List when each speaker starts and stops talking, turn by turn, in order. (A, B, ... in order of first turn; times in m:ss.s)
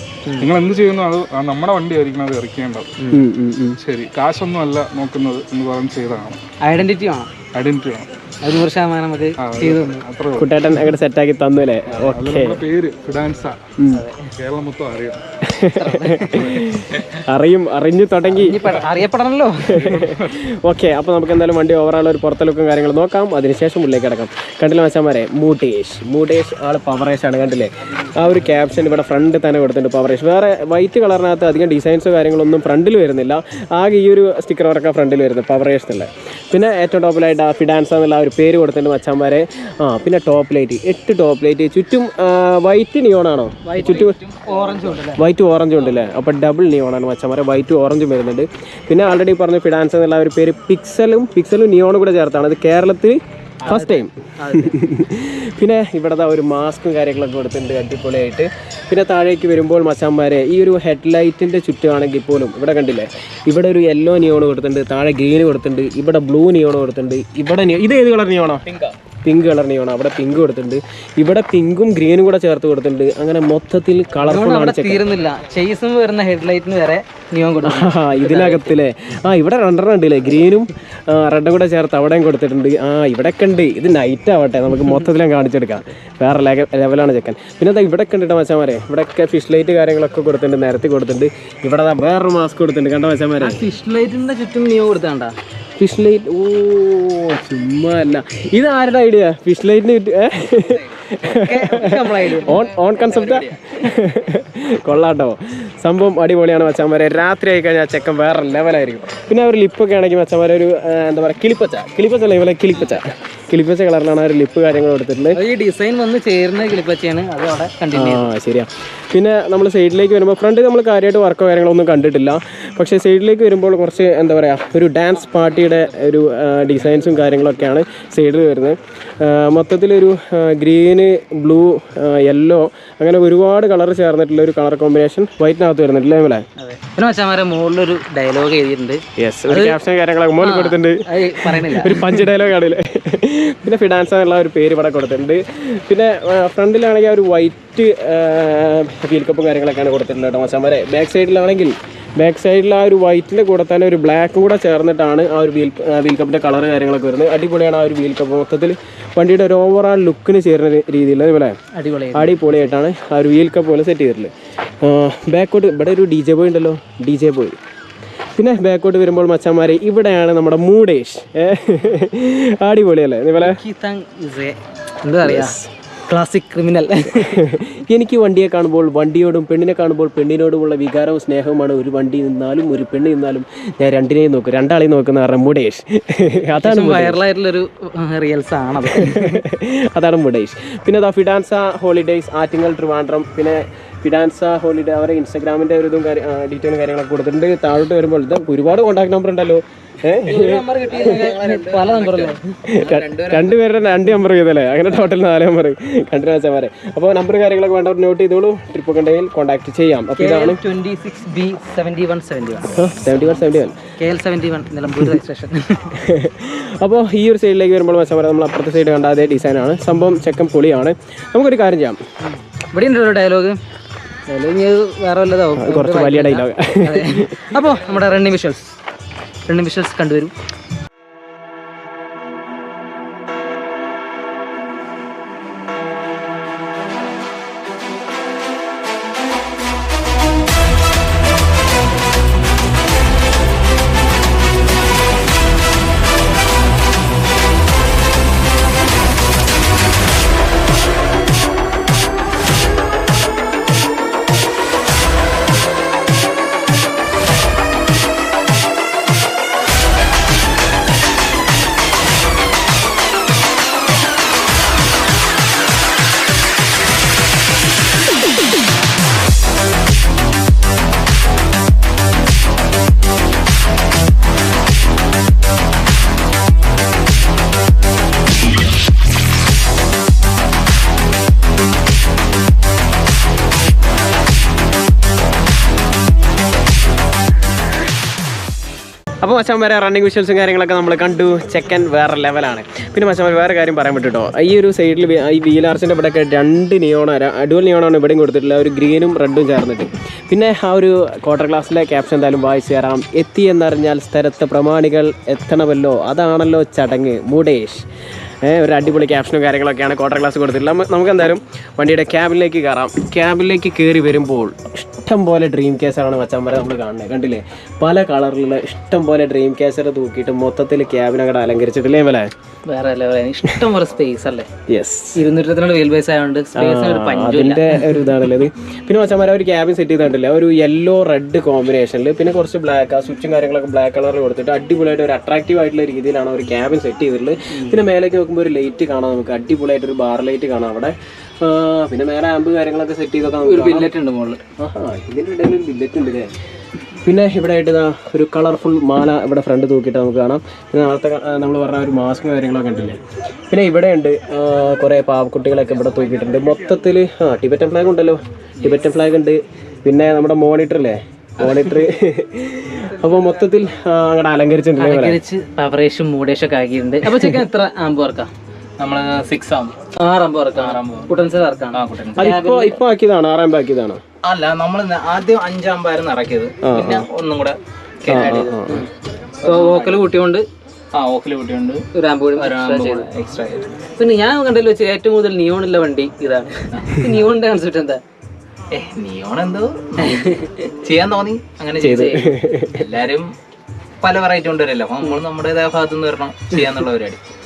0:00.4-0:03.0 A
0:03.1-0:03.8 B
0:03.8-0:06.4 A
0:06.6-0:07.3 C
0:07.5-0:08.1 A
0:08.4-0:10.0 C
0:09.4-0:10.5 A
0:10.4-0:12.6 B
0:12.0-0:13.6 A
0:13.9-0:14.3 C
0:14.4-0:15.2 A
0:15.4-0:18.6 B
0:15.7-0:16.4 C
0:16.4-0:17.2 A
0:18.3-0:19.9 C
0:19.8-0:20.4 A
0:19.8-0:44.2 B
0:43.6-0:45.2 C
0:43.8-0:45.0 D
0:45.1-1:08.6 B
0:53.6-0:54.8 C
1:08.7-1:08.9 D
1:09.2-1:15.1 B
1:14.2-1:18.8 C
1:17.6-1:33.6 B
1:33.4-1:35.3 C
1:35.8-1:55.4 B
1:40.5-1:40.9 D
1:41.2-1:42.7 C
1:41.7-1:43.8 D
1:55.3-1:58.3 C
1:57.9-2:16.4 B
2:16.6-2:19.8 C
2:19.2-2:41.6 B
2:20.4-2:22.2 C
2:41.7-2:42.7 C
2:42.1-2:44.3 B
2:44.8-2:47.6 B
2:48.4-2:53.6 B
2:53.4-2:55.6 C
2:55.2-2:55.7 B
2:56.1-2:57.4 C
2:57.1-3:07.2 B
3:06.6-3:09.4 C
3:09.0-3:21.1 B
3:20.2-3:22.4 C
3:20.9-3:23.6 D
3:22.7-3:30.6 B
3:30.2-3:33.4 C
3:32.7-3:33.8 B
3:34.0-3:36.0 C
3:36.0-3:42.0 B
3:42.3-3:43.6 C
3:44.3-3:48.7 C
3:45.5-3:47.5 B
3:49.5-3:50.3 C
4:49.2-5:07.8 B
5:08.4-5:22.3 B
5:22.7-5:24.5 C
5:24.7-5:25.2 B
5:25.2-5:27.9 C
5:26.5-5:43.9 B
5:43.4-5:44.4 C
5:44.6-5:46.3 B
5:47.0-5:53.0 B
5:53.5-6:05.2 B
6:01.4-6:01.7 D
6:04.8-6:08.3 C
6:07.0-6:07.4 B
6:08.8-6:09.7 D
6:10.0-6:12.8 C
6:10.5-6:11.1 D
6:11.7-6:12.4 D
6:12.2-6:14.0 B
6:14.2-6:18.7 D
6:16.6-6:17.0 B
6:18.0-6:18.8 B
6:19.4-6:20.1 D
6:19.4-6:20.4 C
6:20.9-6:23.8 D
6:21.9-6:23.1 C
6:24.0-6:28.0 C
6:26.7-6:27.2 D
6:28.7-6:33.3 D
6:30.0-6:30.5 C
6:31.8-6:32.8 B
6:31.8-6:32.1 C
6:34.0-6:37.2 D